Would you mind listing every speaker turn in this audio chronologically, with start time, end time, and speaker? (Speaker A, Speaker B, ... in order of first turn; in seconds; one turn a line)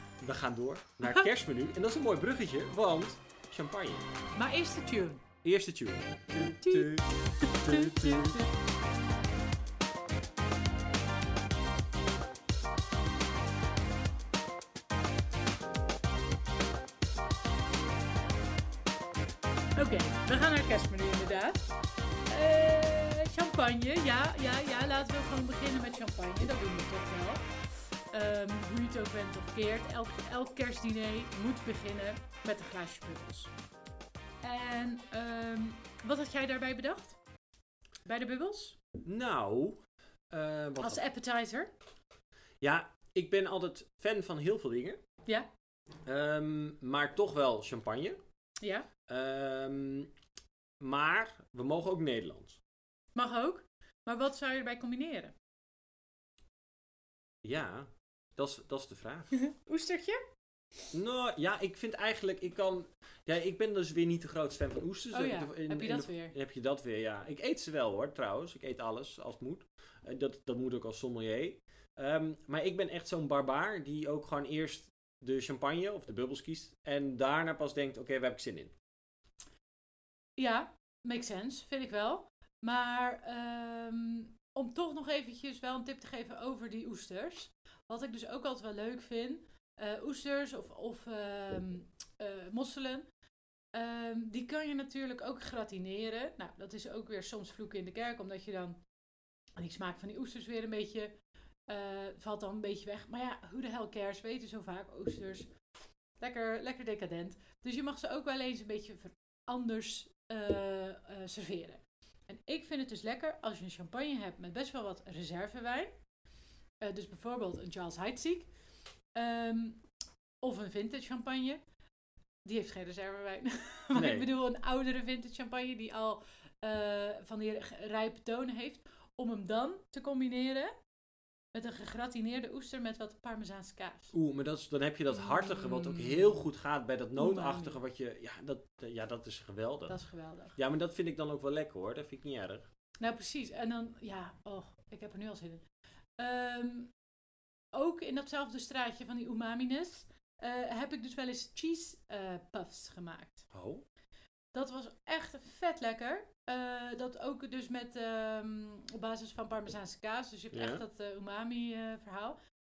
Speaker A: 0.2-4.1
Speaker B: 4.3-5.2
Speaker A: 5.4-8.5
Speaker B: 6.4-8.5
Speaker B: 19.7-21.7
Speaker B: 22.3-27.5
Speaker B: 28.1-33.5
Speaker B: 34.4-37.2
Speaker B: 38.0-38.8
Speaker A: 39.0-39.8
Speaker A: 40.3-41.0
Speaker B: 40.8-41.7
Speaker A: 42.6-45.0
Speaker A: 46.0-48.2
Speaker B: 48.6-48.9
Speaker A: 49.1-50.1
Speaker A: 50.8-52.6
Speaker B: 53.1-55.3
Speaker A: 57.4-59.4
Speaker B: 59.3-60.2
Speaker A: 60.9-78.7
Speaker B: 65.1-66.3
Speaker B: 80.4-93.0
Speaker B: 93.7-98.8
Speaker B: 99.6-101.1
Speaker B: 101.7-105.5
Speaker B: 106.2-115.9
Speaker B: 116.8-118.5
Speaker B: 119.1-119.8
Speaker B: 120.4-121.6
Speaker B: 122.4-130.7
Speaker A: 123.9-124.3
Speaker B: 131.5-134.1
Speaker A: 134.1-140.0
Speaker B: 135.1-136.4
Speaker B: 137.2-137.8
Speaker B: 139.9-140.6
Speaker A: 140.6-142.7
Speaker B: 143.0-145.6
Speaker B: 146.2-146.9
Speaker B: 147.7-153.4
Speaker A: 153.5-153.8
Speaker B: 154.5-162.4
Speaker A: 160.5-160.8